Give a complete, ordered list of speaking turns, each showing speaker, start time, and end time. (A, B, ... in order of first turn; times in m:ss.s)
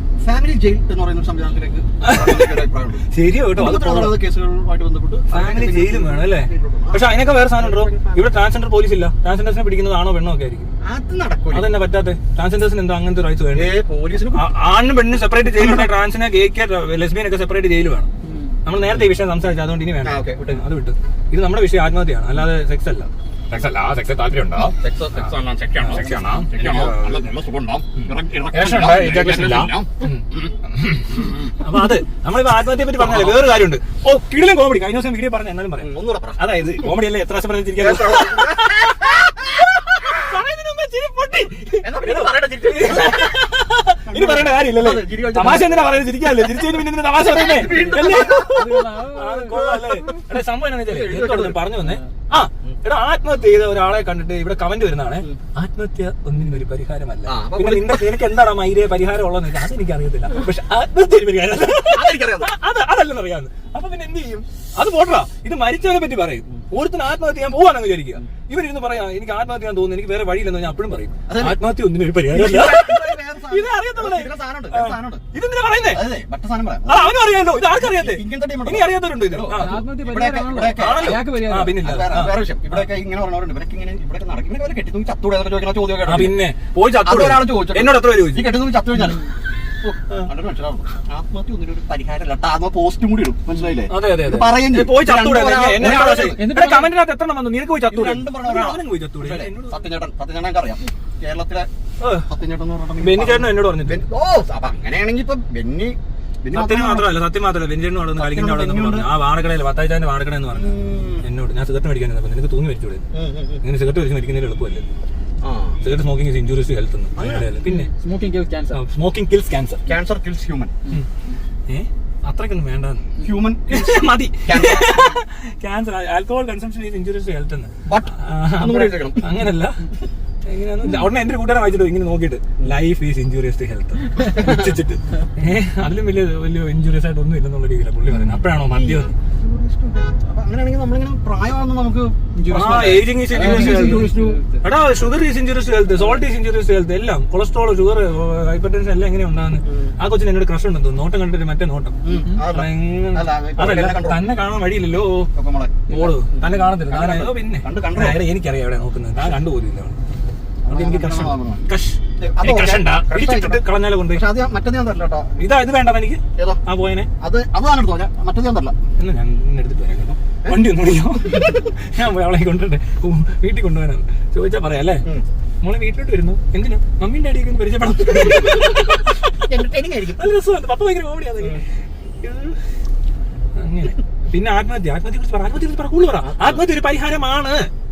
0:00.2-0:08.3 A
0:02.0-0:02.6 B
0:03.1-0:04.2 B
0:05.3-0:10.7 B
0:10.8-0:11.7 A
0:11.5-0:13.7 B
0:13.5-0:14.5 A
0:14.3-0:18.1 B
0:15.5-0:15.9 A
0:18.2-0:18.6 C
0:18.6-0:24.8 B
0:18.7-0:19.1 A
0:20.0-0:20.6 A
0:24.8-0:29.9 A
0:25.8-0:27.2 B
0:28.5-1:16.1 B
0:33.0-0:33.4 A
0:35.8-0:36.5 A
0:37.8-0:39.1 A
0:41.8-0:43.4 A
0:44.1-0:46.1 A
0:47.2-0:48.8 A
0:47.5-0:50.2 C
0:50.9-0:51.7 A
0:51.8-0:52.1 C
0:52.4-0:52.8 A
0:57.2-0:58.3 A
1:01.8-1:02.5 A
1:11.3-1:11.6 A
1:12.3-1:15.2 A
1:15.9-1:17.2 A
1:16.8-1:19.8 B
1:17.7-1:21.2 A
1:19.5-1:21.8 C
1:20.7-1:22.9 B
1:21.8-1:26.4 A
1:26.0-1:28.6 B
1:27.0-1:29.2 A
1:29.0-1:29.3 C
1:29.8-1:36.5 A
1:33.9-1:39.8 B
1:35.8-1:36.9 C
1:37.9-1:41.7 A
1:42.0-1:42.3 B
1:42.2-1:47.1 A
1:43.0-1:44.0 B
1:46.5-1:53.0 B
1:48.2-1:49.1 A
1:50.5-1:51.3 A
1:53.1-1:53.6 A
1:53.6-1:54.8 B
1:55.4-1:55.8 A
1:55.8-1:57.9 B
1:57.2-1:57.6 A
1:57.6-1:58.8 C
1:58.7-1:59.8 B
1:59.9-2:00.8 A
2:01.7-2:03.1 B
2:03.2-2:05.1 A
2:03.7-2:09.8 B
2:07.9-2:09.3 A
2:10.5-2:19.2 B
2:14.4-2:14.7 A
2:18.1-2:24.4 A
2:22.4-2:24.6 C
2:22.5-2:35.3 B
2:29.6-2:30.0 A
2:32.0-2:34.2 A
2:35.3-2:38.2 A
2:35.9-2:40.0 B
2:40.6-2:41.6 A
2:40.7-2:44.2 B
2:42.2-2:45.4 A
2:45.4-2:47.1 B
2:46.4-2:46.6 A
2:47.2-2:48.8 A
2:49.0-2:55.0 B
2:51.2-2:51.7 A
2:55.6-2:59.4 B
2:58.3-2:58.8 A
2:59.4-3:00.3 A
3:00.2-3:01.6 B
3:02.2-3:02.6 B
3:03.6-3:07.7 B
3:06.2-3:06.6 A